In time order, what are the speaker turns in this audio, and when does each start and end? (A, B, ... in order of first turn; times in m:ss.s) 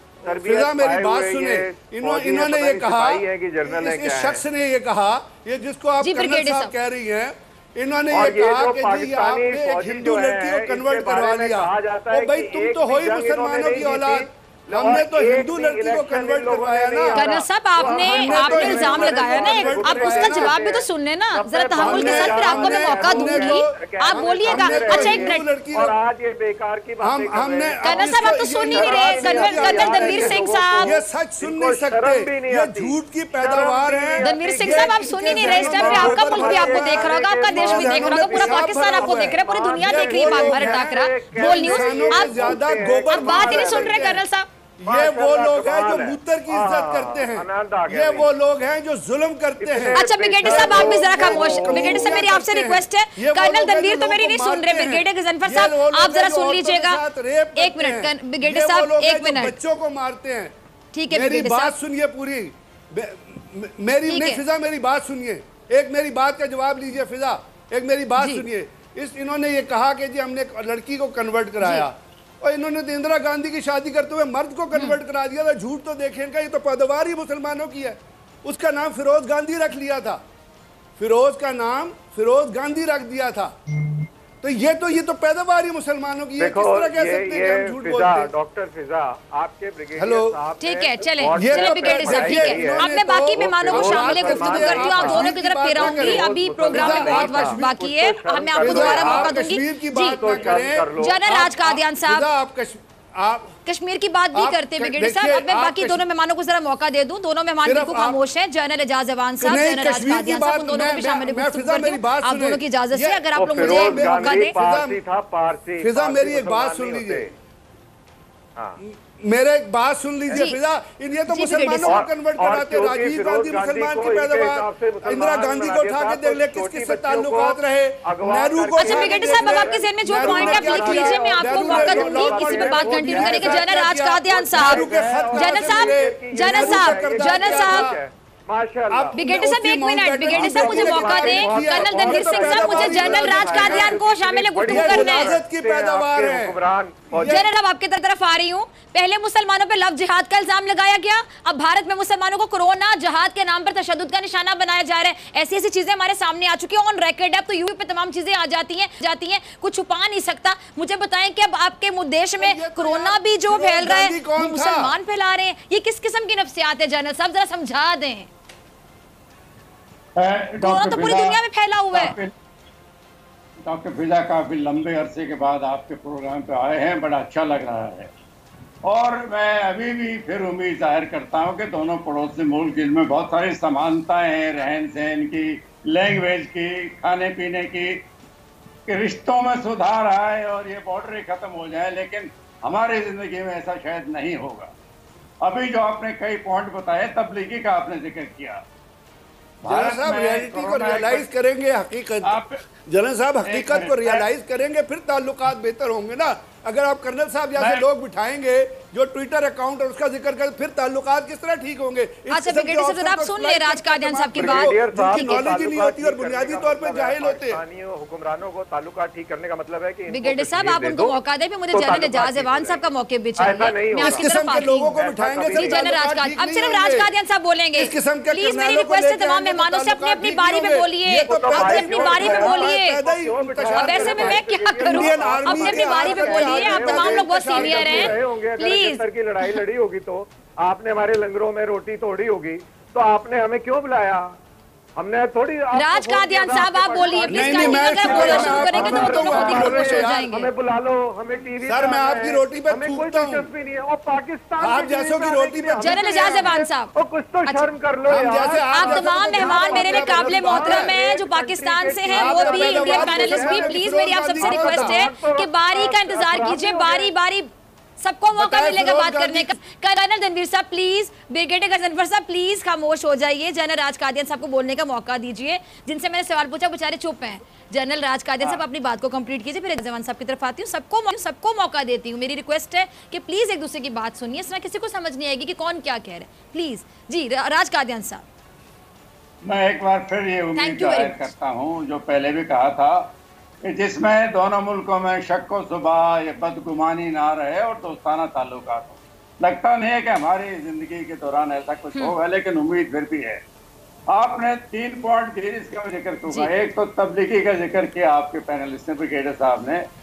0:00.2-0:04.4 A
0:00.2-0:20.6 B
0:06.0-0:06.7 C
0:08.1-0:44.2 A
0:17.1-0:25.4 C
0:21.8-0:26.0 B
0:27.0-0:44.2 B
0:27.8-0:30.9 C
0:34.2-0:44.5 C
0:44.8-1:00.5 B
0:44.8-0:48.3 A
0:49.6-0:52.3 A
0:49.9-0:57.0 C
0:57.6-0:59.6 C
1:00.9-1:01.7 C
1:01.1-1:20.2 B
1:04.1-1:04.4 C
1:08.2-1:08.4 C
1:11.6-1:11.9 C
1:21.0-1:23.6 B
1:24.4-1:28.3 B
1:26.4-1:39.4 A
1:30.0-1:30.3 B
1:30.6-1:42.2 C
1:31.4-1:37.8 B
1:38.6-1:43.6 B
1:40.0-1:41.2 A
1:43.6-1:54.5 C
1:44.3-1:46.0 B
1:47.6-1:48.2 B
1:49.4-1:55.0 B
1:53.4-1:57.3 A
1:55.8-1:57.3 B
1:58.8-2:18.0 B
2:00.3-2:00.6 C
2:01.3-2:02.0 C
2:01.8-2:13.8 A
2:08.8-2:17.9 C
2:14.5-2:19.2 A
2:18.9-2:24.0 B
2:19.1-2:25.3 C
2:20.3-2:27.5 A
2:24.6-2:26.6 B
2:27.1-2:27.5 B
2:27.2-2:48.3 C
2:42.4-2:44.9 B
2:50.2-2:51.4 D
2:50.6-2:52.1 C
2:51.9-2:52.3 D
2:53.6-2:58.1 D
2:58.8-3:08.0 D
3:08.9-3:14.7 D
3:15.4-3:18.6 D
3:19.6-3:21.3 D
3:19.6-3:37.6 B
3:22.2-3:22.6 D
3:23.4-3:24.2 D
3:27.6-3:27.8 D
3:32.3-3:35.5 C
3:34.4-3:41.1 A
3:40.1-3:44.9 C
3:41.7-3:42.8 A
3:43.4-3:45.8 A
3:44.0-3:47.1 B
3:45.5-3:53.0 C
3:47.8-3:58.2 B
3:51.2-4:04.4 A
3:53.7-3:59.6 C
4:05.0-4:27.1 A
4:05.7-4:10.5 C
4:07.3-4:10.3 B
4:08.1-4:08.6 D
4:11.6-4:13.5 B
4:14.6-4:16.5 B
4:15.8-4:16.9 C
4:18.1-4:21.2 B
4:18.5-4:48.2 C
4:22.1-4:25.0 B
4:28.3-4:29.6 B
4:49.4-4:53.1 D
4:50.6-4:51.2 C
4:53.6-5:03.4 D
5:04.1-5:09.8 D